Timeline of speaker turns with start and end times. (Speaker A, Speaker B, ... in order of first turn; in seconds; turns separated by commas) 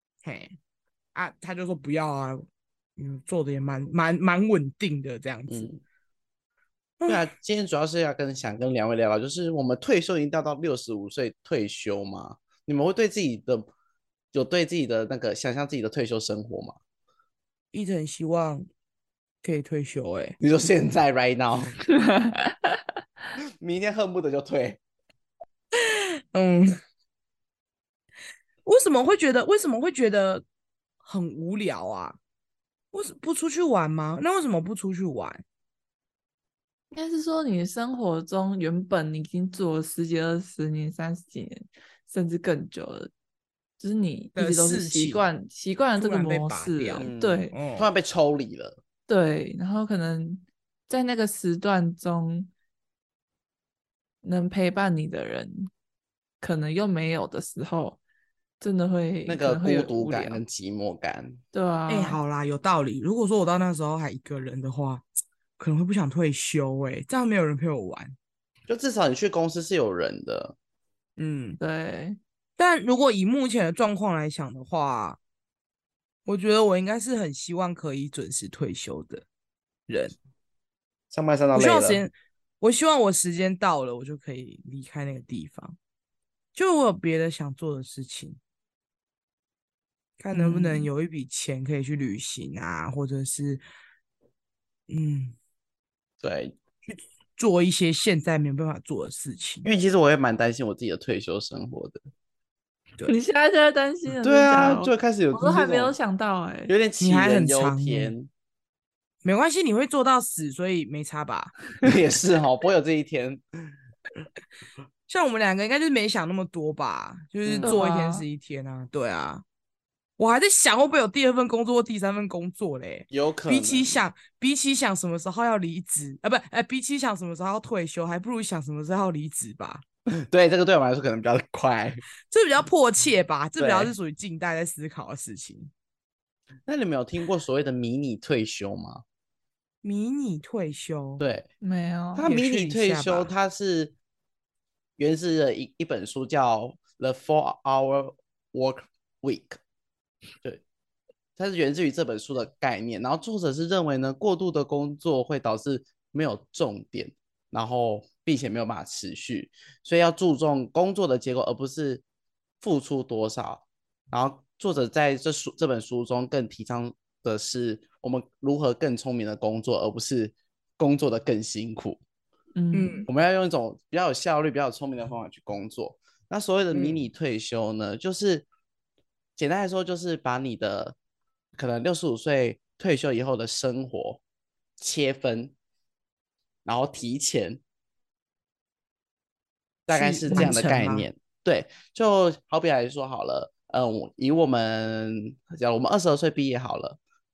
Speaker A: 0.2-0.6, Speaker A: 1.1-2.5, Speaker A: 3.0-5.7, Speaker B: 5.5-5.8, Speaker B: 7.1-13.7, Speaker B: 14.3-16.8, Speaker A: 17.7-18.7, Speaker A: 19.4-20.4, Speaker B: 20.4-21.7, Speaker C: 21.9-22.8, Speaker B: 23.6-24.8, Speaker A: 25.7-26.8, Speaker A: 28.6-30.4, Speaker A: 31.0-32.2, Speaker A: 32.9-35.4, Speaker C: 36.9-43.1, Speaker C: 43.8-47.5, Speaker A: 44.4-45.3, Speaker A: 46.0-47.9, Speaker B: 47.0-48.8, Speaker C: 49.1-52.5, Speaker C: 54.2-55.7, Speaker C: 56.4-58.0, Speaker C: 58.6-60.4, Speaker B: 59.2-61.4, Speaker C: 61.5-62.2, Speaker A: 61.9-65.0, Speaker A: 65.6-68.2, Speaker B: 68.7-70.5, Speaker A: 71.2-71.6, Speaker C: 71.6-72.2, Speaker A: 72.6-75.2, Speaker A: 76.2-79.2, Speaker A: 79.9-80.2, Speaker B: 81.1-82.0, Speaker A: 81.5-85.8, Speaker A: 86.5-88.4, Speaker A: 90.2-93.6, Speaker C: 90.3-90.9, Speaker A: 94.9-95.3, Speaker B: 96.2-96.6, Speaker A: 97.4-99.7, Speaker B: 99.6-102.0, Speaker C: 103.0-106.7, Speaker B: 104.2-106.0, Speaker B: 106.7-108.3, Speaker A: 107.0-108.1, Speaker A: 109.2-111.6, Speaker B: 111.8-113.4, Speaker A: 115.1-119.4, Speaker B: 117.4-117.8, Speaker C: 117.6-118.2, Speaker A: 120.2-129.8, Speaker B: 123.1-124.0, Speaker B: 130.1-132.0, Speaker A: 132.3-135.7, Speaker B: 133.6-133.9, Speaker B: 136.7-139.0, Speaker A: 139.8-141.2, Speaker B: 141.2-141.5, Speaker C: 141.6-142.3, Speaker B: 142.1-143.9, Speaker A: 142.2-143.3, Speaker B: 145.0-149.6, Speaker B: 151.4-162.0, Speaker B: 162.6-172.0, Speaker C: 172.6-173.1, Speaker A: 172.7-173.1, Speaker B: 173.1-178.4, Speaker A: 176.7-177.0, Speaker B: 179.4-180.9, Speaker B: 181.6-184.2, Speaker B: 184.8-185.5, Speaker B: 186.7-187.6, Speaker A: 189.9-191.1, Speaker B: 189.9-197.0, Speaker C: 190.3-190.7